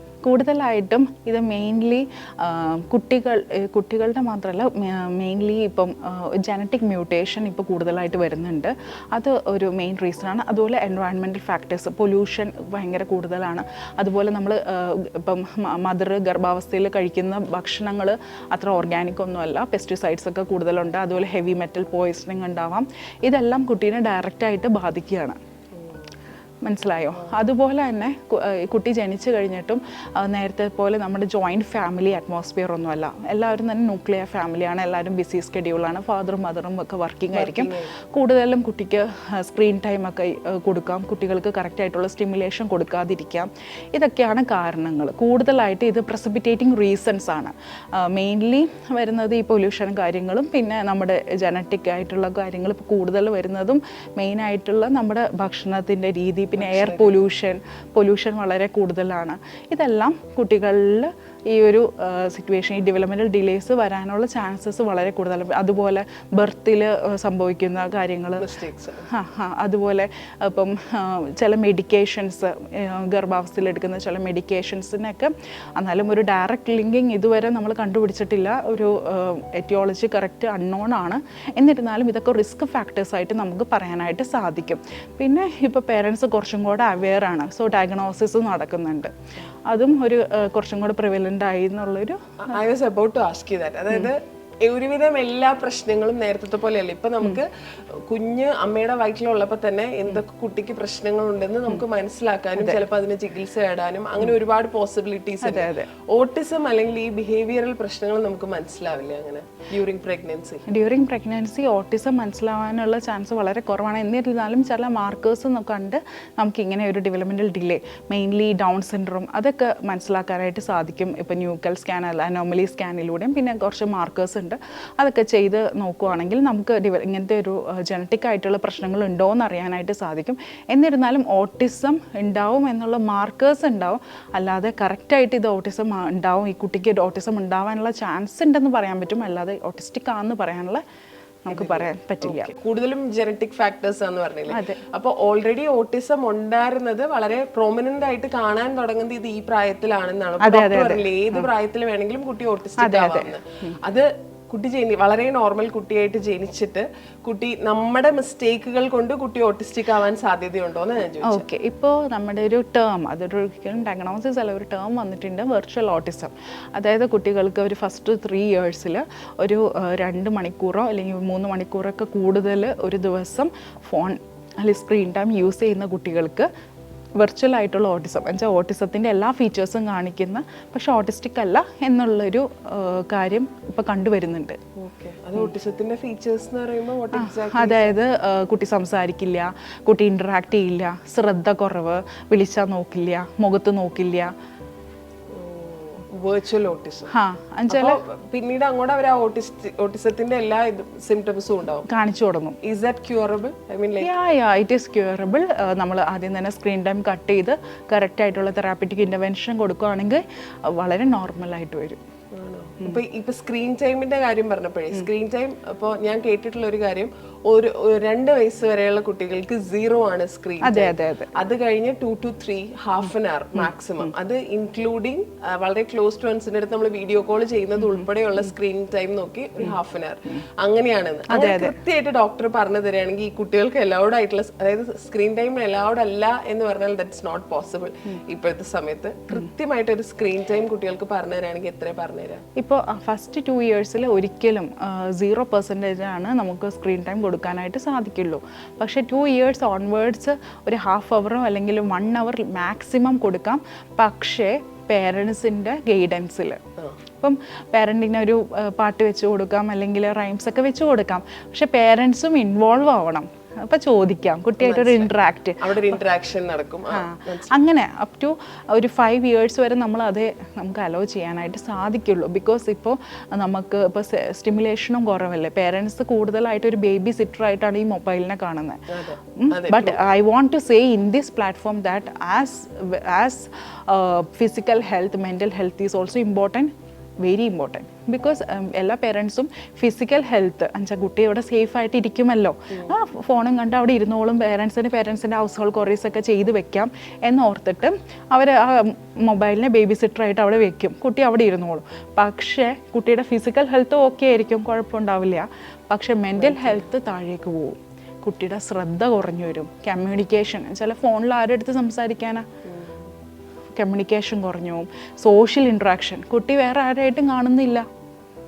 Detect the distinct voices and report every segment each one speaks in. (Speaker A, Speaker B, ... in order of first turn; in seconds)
Speaker A: 0.2-25.4, 26.6-68.5, 69.1-89.1, 89.7-92.4, 105.4-105.9, 110.7-140.8, 141.4-142.6, 144.5-144.8, 150.4-151.4, 152.8-153.7, 161.2-176.5, 177.2-184.6, 187.2-194.3, 197.1-198.0, 201.9-202.6, 204.0-212.0, 220.6-221.3, 231.3-231.8, 242.6-256.6, 257.2-265.9, 266.9-312.5, 313.8-317.9
Speaker B: 25.8-26.0, 37.3-37.9, 56.6-57.2, 68.4-69.1, 92.4-110.7, 141.5-161.4, 184.8-188.0, 195.3-197.1, 197.7-201.9, 202.6-204.1, 212.3-242.4, 264.6-267.5, 278.9-280.0, 306.4-306.8, 312.6-313.1